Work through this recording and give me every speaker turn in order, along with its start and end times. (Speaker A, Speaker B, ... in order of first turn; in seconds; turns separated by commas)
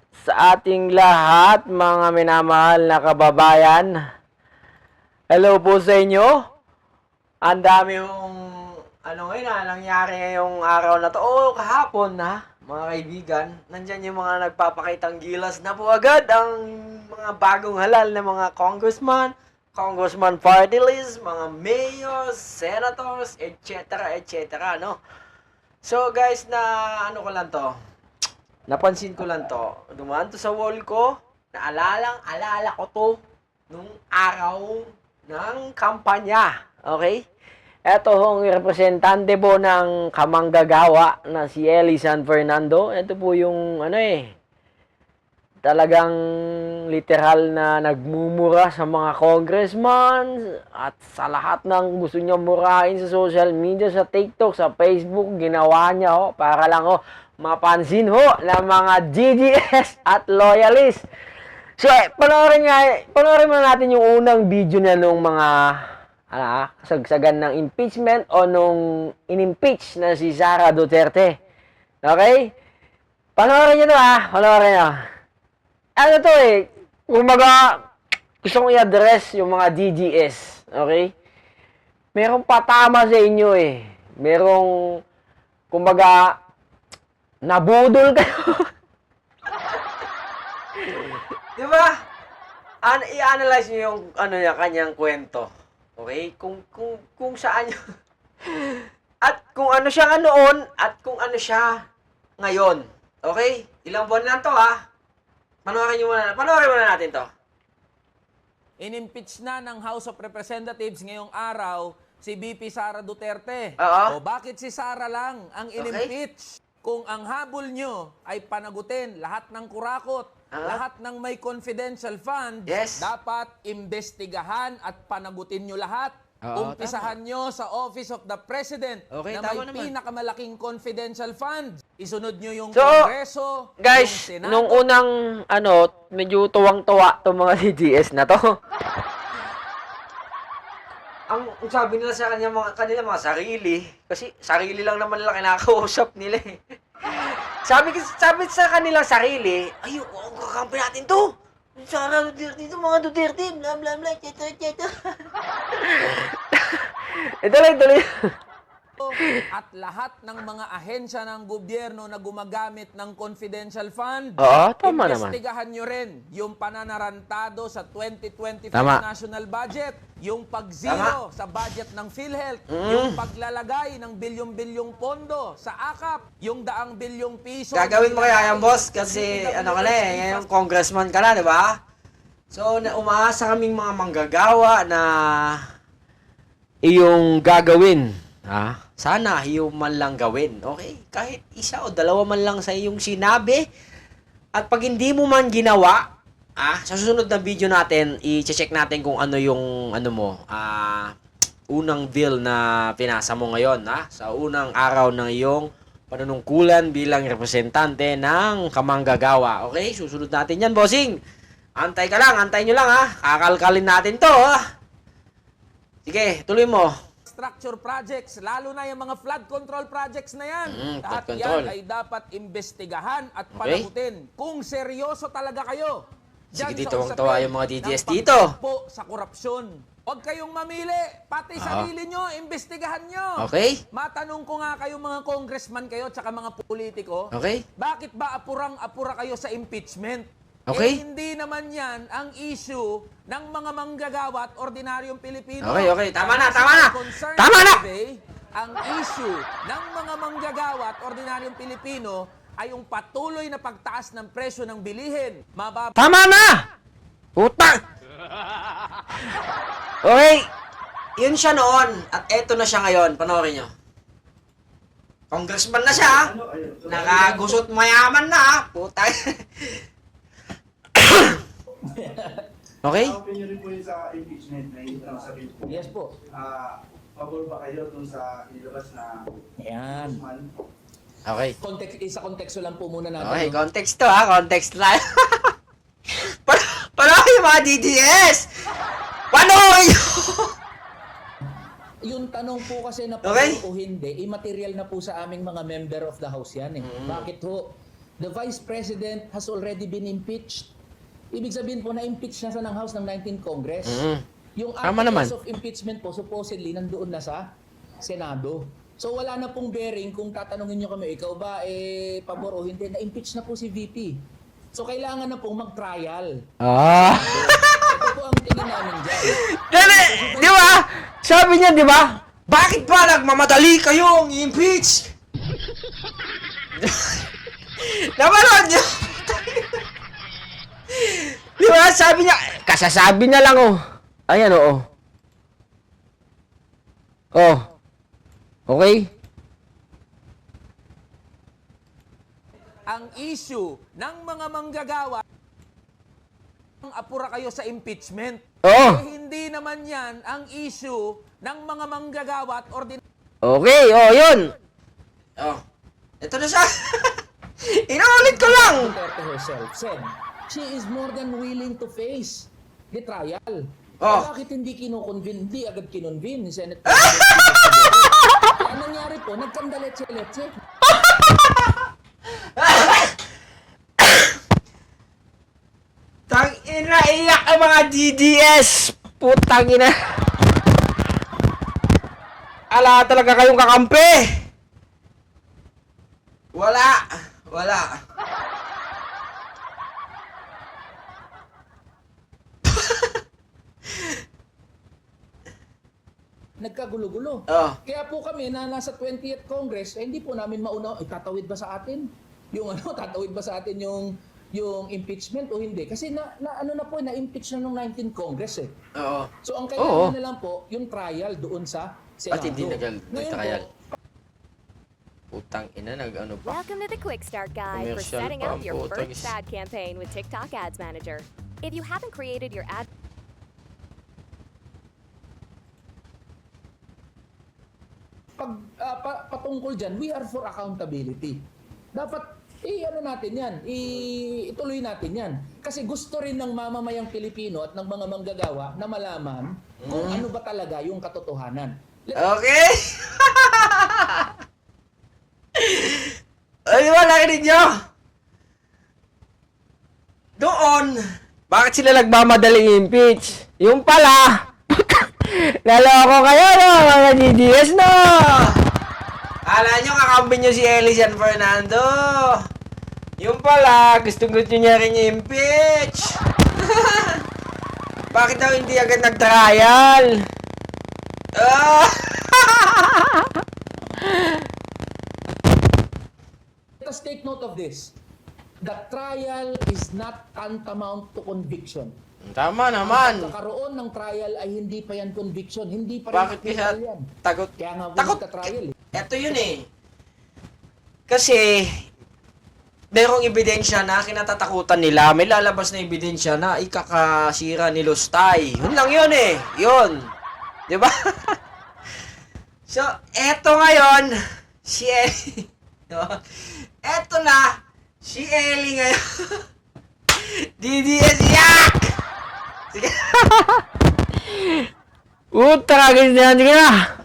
Speaker A: 0.2-4.0, Speaker A: 5.3-6.4, Speaker A: 7.4-8.4, Speaker A: 8.9-25.0, Speaker A: 25.8-27.7, Speaker A: 28.7-37.2, Speaker A: 37.9-44.3, Speaker A: 45.6-46.1, Speaker A: 46.9-61.0, Speaker A: 61.8-71.4, Speaker A: 72.0-72.5, Speaker A: 73.3-75.0, Speaker A: 76.0-77.8, Speaker A: 78.4-81.1, Speaker A: 82.1-85.0, Speaker A: 85.7-86.3, Speaker A: 87.4-88.7, Speaker A: 90.9-91.9, Speaker A: 92.8-97.8, Speaker A: 99.2-101.8, Speaker A: 102.4-104.8, Speaker A: 105.6-107.3, Speaker B: 108.8-134.8, Speaker A: 113.8-114.2, Speaker A: 115.8-116.1, Speaker A: 120.5-120.8, Speaker A: 122.7-123.1, Speaker A: 126.4-127.1, Speaker A: 129.1-129.9, Speaker A: 132.7-133.1, Speaker A: 133.8-138.6, Speaker A: 141.3-155.1, Speaker A: 155.8-158.1, Speaker B: 159.0-180.4, Speaker A: 164.4-165.4, Speaker A: 168.7-169.0, Speaker A: 170.8-171.2, Speaker A: 172.7-173.2, Speaker A: 177.7-181.8, Speaker A: 182.5-185.6, Speaker A: 186.8-193.6, Speaker A: 194.5-196.0, Speaker A: 196.6-201.1, Speaker A: 201.7-211.2, Speaker A: 211.8-214.6, Speaker A: 216.1-216.9, Speaker B: 217.3-255.9, Speaker A: 220.7-221.7, Speaker A: 223.6-223.9, Speaker A: 226.5-228.6, Speaker A: 231.6-231.9, Speaker A: 233.4-233.8, Speaker A: 237.3-237.6, Speaker A: 240.7-241.0, Speaker A: 245.6-247.8, Speaker A: 256.0-256.6, Speaker A: 257.4-257.8, Speaker A: 260.0-260.5, Speaker A: 261.2-263.7, Speaker A: 265.3-266.3, Speaker C: 266.1-267.4, Speaker A: 266.9-269.8, Speaker A: 271.0-271.4, Speaker D: 271.8-272.4, Speaker A: 272.8-273.2, Speaker C: 273.0-279.4, Speaker D: 275.7-276.1, Speaker D: 279.6-280.2, Speaker C: 280.0-280.5, Speaker A: 281.2-281.5, Speaker D: 281.6-283.6, Speaker A: 283.2-285.5, Speaker A: 286.2-288.5, Speaker A: 289.3-290.5, Speaker D: 292.0-300.7, Speaker A: 293.2-293.6, Speaker A: 296.8-297.2, Speaker D: 301.3-314.2, Speaker A: 303.8-304.2, Speaker A: 304.8-305.3, Speaker D: 314.7-316.5, Speaker A: 316.6-317.9, Speaker D: 317.2-320.8, Speaker A: 319.2-325.1, Speaker A: 326.8-327.2, Speaker A: 327.8-329.7, Speaker A: 330.9-334.8, Speaker A: 337.3-337.6, Speaker A: 338.7-339.1, Speaker B: 342.9-345.2, Speaker B: 346.8-353.0, Speaker A: 348.6-349.0, Speaker A: 353.4-354.5, Speaker A: 356.2-358.9, Speaker D: 358.2-370.6, Speaker A: 364.0-364.3, Speaker A: 366.8-368.5, Speaker A: 370.9-371.7, Speaker A: 372.6-373.1, Speaker A: 374.0-374.2, Speaker A: 376.3-379.9, Speaker A: 382.7-384.3, Speaker A: 386.5-388.0, Speaker A: 392.8-393.1, Speaker D: 396.6-408.7, Speaker A: 397.5-397.8, Speaker A: 408.9-410.1, Speaker D: 409.4-413.9, Speaker A: 412.3-413.6, Speaker A: 415.3-416.6, Speaker E: 416.4-422.9, Speaker A: 417.7-419.3, Speaker D: 428.4-431.4, Speaker D: 431.9-442.4, Speaker A: 439.8-440.2, Speaker A: 442.1-444.3, Speaker A: 445.6-446.1, Speaker A: 446.6-447.7, Speaker A: 450.4-458.6, Speaker A: 459.4-462.4, Speaker A: 463.2-466.2, Speaker A: 466.7-467.1, Speaker A: 468.1-470.2, Speaker A: 471.3-473.2, Speaker A: 474.0-474.3, Speaker D: 476.8-477.9, Speaker D: 478.6-481.9, Speaker A: 482.2-483.3, Speaker D: 482.8-488.7, Speaker A: 486.1-488.4, Speaker A: 488.9-489.7, Speaker A: 491.1-491.8, Speaker A: 492.9-500.1, Speaker A: 500.7-501.3, Speaker A: 502.7-509.3, Speaker A: 510.1-511.8, Speaker A: 512.7-513.6, Speaker A: 515.3-516.8